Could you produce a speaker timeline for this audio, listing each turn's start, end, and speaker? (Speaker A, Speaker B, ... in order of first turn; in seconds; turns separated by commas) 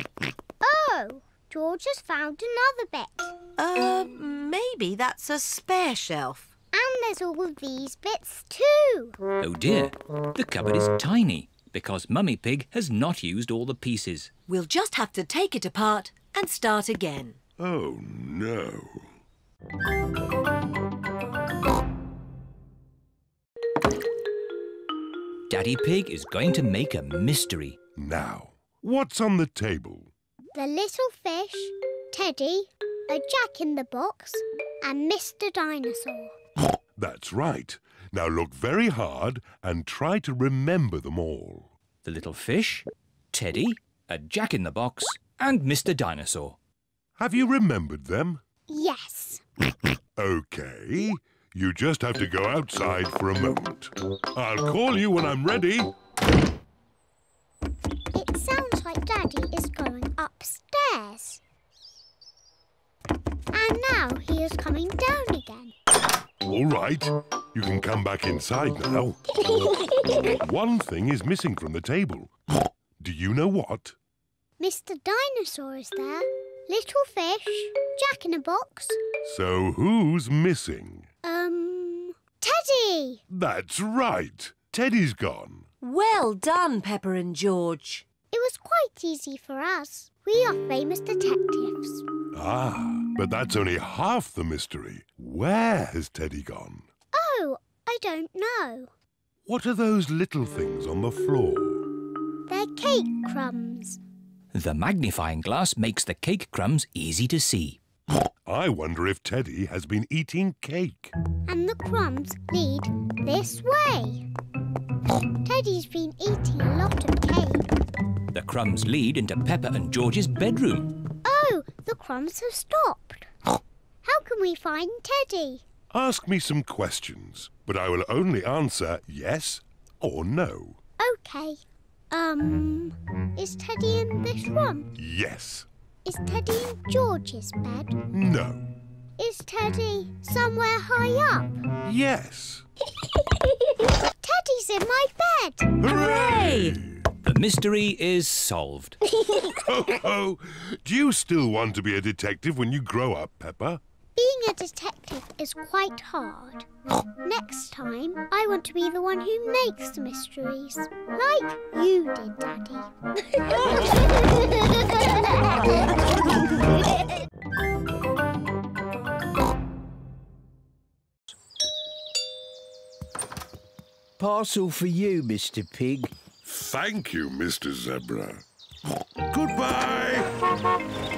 Speaker A: 0.6-3.3, Speaker B: 3.6-6.5, Speaker A: 6.7-9.2, Speaker C: 9.4-14.3, Speaker B: 14.5-17.4, Speaker D: 17.6-19.1, Speaker C: 25.5-27.8, Speaker D: 28.0-30.1, Speaker A: 30.5-36.3, Speaker D: 37.0-41.7, Speaker C: 42.0-46.6, Speaker D: 47.2-48.4, Speaker A: 48.7-49.4, Speaker D: 50.2-55.9, Speaker A: 58.1-61.4, Speaker A: 63.5-65.7, Speaker D: 66.4-69.2, Speaker A: 69.7-70.1, Speaker D: 70.3-72.3, Speaker D: 73.0-73.9, Speaker A: 74.6-79.0, Speaker D: 79.2-81.1, Speaker A: 81.2-83.2, Speaker D: 83.3-85.6, Speaker B: 85.8-88.0, Speaker A: 88.3-92.0, Speaker D: 92.3-96.8, Speaker A: 97.1-98.9, Speaker D: 99.5-101.9, Speaker A: 102.5-104.0, Speaker C: 104.5-107.8, Speaker D: 108.5-111.1, Speaker A: 111.5-114.2, Speaker A: 115.4-117.7, Speaker C: 118.3-120.9, Speaker A: 121.2-123.3, Speaker A: 124.0-125.6, Speaker D: 125.9-130.8, Speaker A: 131.0-134.9, Speaker D: 135.0-135.7, Speaker A: 136.0-138.0, Speaker D: 138.1-138.7, Speaker A: 139.2-141.6, Speaker D: 141.8-142.6, Speaker A: 144.1-145.7, Speaker D: 145.8-147.0, Speaker B: 145.8-146.8, Speaker C: 147.2-149.0, Speaker D: 149.7-153.8, Speaker A: 154.2-156.7, Speaker A: 157.2-164.0, Speaker E: 174.2-176.1, Speaker D: 176.4-178.4, Speaker D: 179.3-180.3